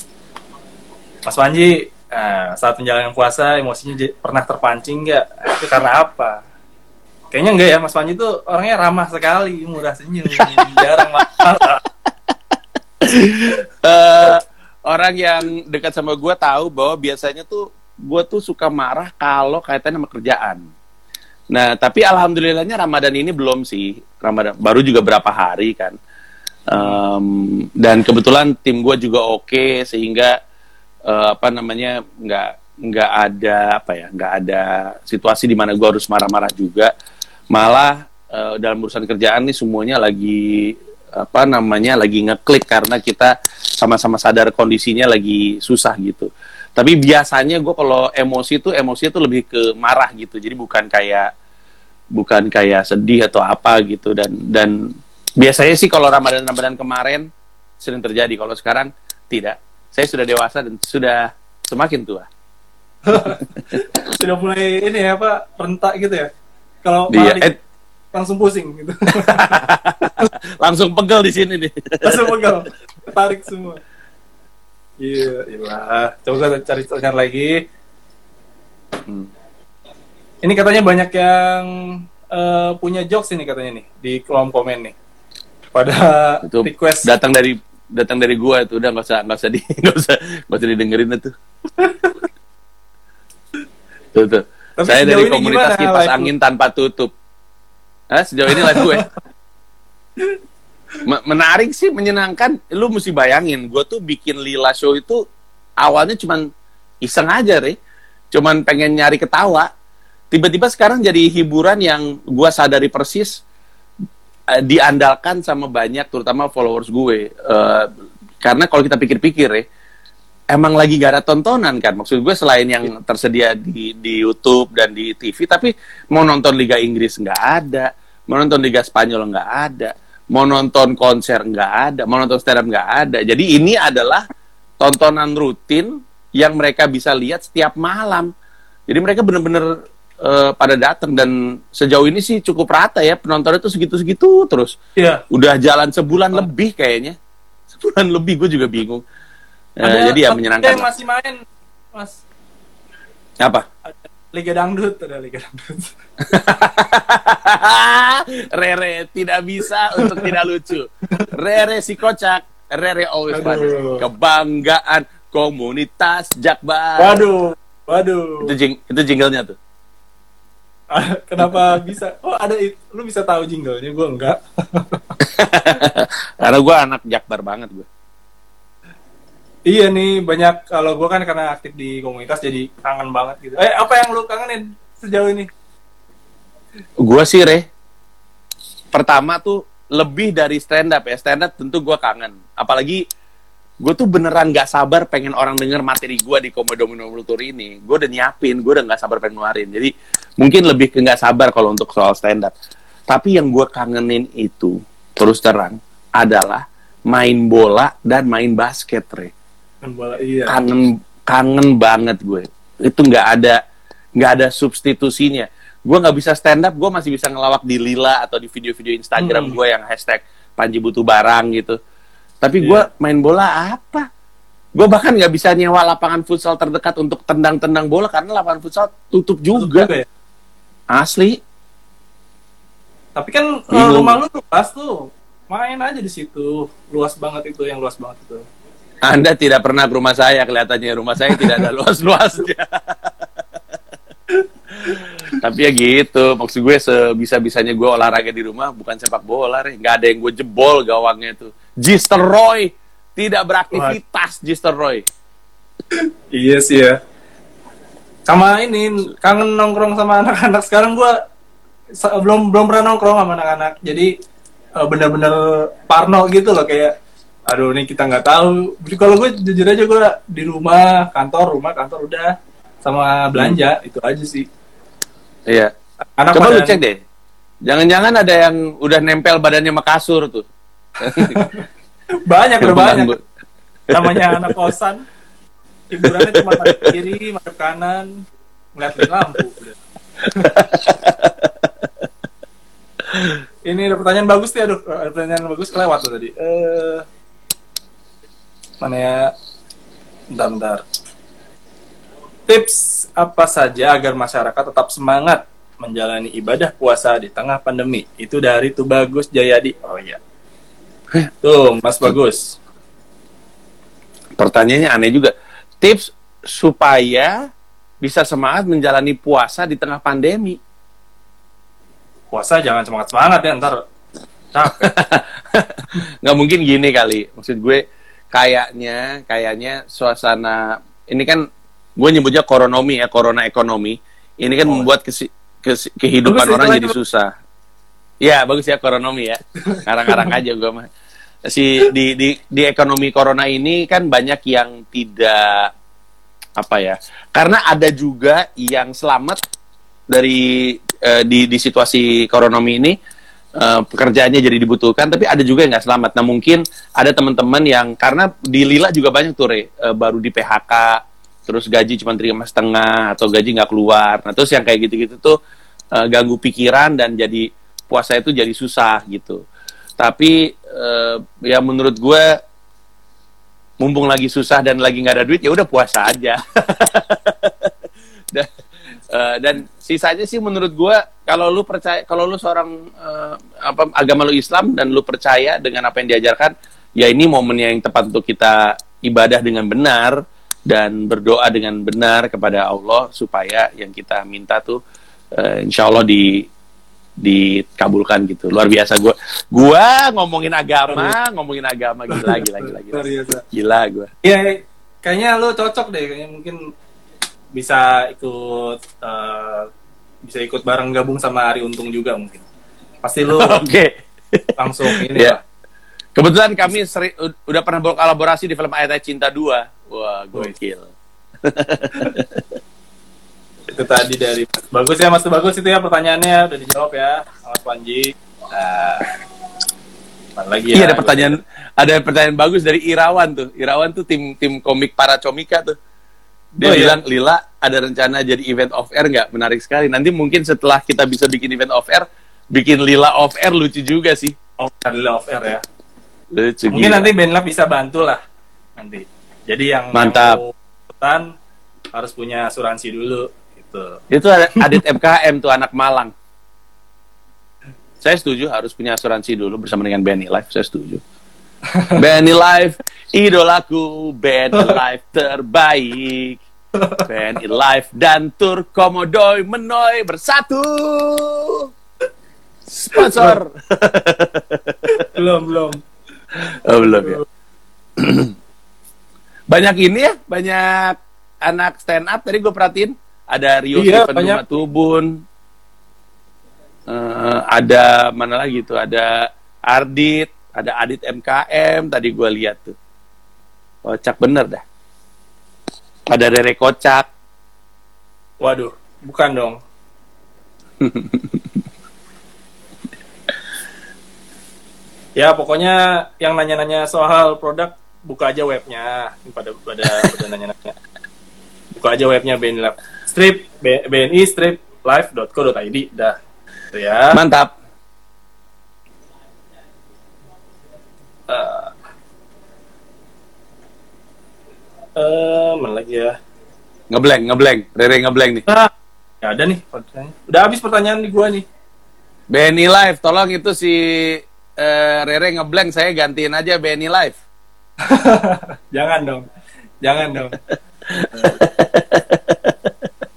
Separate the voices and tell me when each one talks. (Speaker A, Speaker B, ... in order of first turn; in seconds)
Speaker A: 1.3-6.4, 7.3-11.8, 26.7-27.0, 63.1-66.3, 66.8-67.5, 68.1-70.3, 72.0-73.8, 75.0-77.6, 80.4-85.0, 85.8-87.1, 91.8-92.1, 94.8-96.3, 98.5-99.1, 145.0-145.2, 149.8-151.4, 151.9-152.2, 153.9-155.9, 160.0-160.3, 163.3-164.0, 167.0-168.5, 170.9-175.0, 179.7-185.5, 209.8-210.6, 219.2-219.6, 222.6-222.9, 229.6-230.1, 233.2-238.4, 241.3-241.7, 253.7-254.0, 256.3-257.0, 258.3-261.1, 262.0-264.1, 264.8-266.9, 267.5-272.3, 272.9-274.5, 276.2-276.8, 281.0-281.6, 282.3-283.1, 283.9-285.0, 285.9-288.1, 288.8-289.8, 290.3-290.6, 293.7-297.0, 298.8-299.3, 300.3-300.8, 302.5-310.2, 311.4-312.6, 322.3-323.8, 324.5-324.9, 336.3-336.9, 339.7-340.4, 400.9-401.1, 402.1-403.4, 404.2-406.6, 407.6-409.7, 410.2-412.4, 413.0-413.6, 414.6-415.4, 423.7-429.1, 430.4-431.4, 436.6-437.0, 444.6-445.6, 446.7-448.2, 448.8-451.3, 451.9-454.0, 461.7-462.0, 466.8-467.1, 472.9-473.4, 474.9-475.8, 476.8-477.2, 483.8-484.4, 498.4-499.6, 505.2-510.8, 511.7-516.2, 516.7-517.2, 521.3-521.7, 525.0-526.1, 529.2-531.4, 537.9-539.3, 539.8-540.4
Speaker B: 10.4-10.8, 13.0-20.6, 21.5-25.9, 26.7-30.3, 31.1-36.9, 37.5-51.3, 52.1-57.3, 57.8-62.3, 67.1-67.5, 69.3-72.5, 86.5-91.3, 94.1-97.1, 98.1-99.1, 101.1-105.2, 105.8-106.5, 107.0-107.8, 108.3-109.7, 110.3-113.4, 114.6-117.9, 118.4-119.7, 120.5-134.2, 134.8-138.3, 138.9-139.7, 140.2-144.8, 145.3-147.2, 147.7-149.0, 149.8-150.9, 156.3-167.2, 168.4-169.6, 175.2-177.9, 187.0-187.7, 188.9-193.0, 193.8-202.5, 203.1-209.3, 210.5-213.6, 214.2-221.8, 222.4-224.1, 224.8-229.9, 230.9-231.4, 233.7-234.2, 239.0-243.1, 244.9-255.1, 276.3-277.0, 277.7-280.4, 281.0-281.5, 282.6-283.2, 284.0-284.6, 286.6-286.9, 290.4-291.5, 314.4-317.4, 318.0-320.6, 324.8-331.4, 332.0-337.3, 338.2-340.9, 341.5-345.7, 346.6-349.4, 350.1-352.9, 353.6-365.4, 366.0-369.4, 370.0-372.3, 373.8-377.7, 379.1-394.8, 395.4-396.5, 397.2-404.1, 413.4-415.4, 416.2-420.9, 421.4-422.4, 430.7-435.8, 436.6-444.4, 446.3-447.1, 449.9-450.4, 454.1-456.1, 458.0-461.0, 462.0-466.4, 467.1-471.7, 472.7-474.8, 476.4-477.2, 478.0-478.3, 479.5-485.2, 486.9-492.8, 493.9-494.6, 496.1-497.1, 500.8-501.4, 517.1-517.5, 526.9-528.5, 532.3-537.2, 540.9-542.5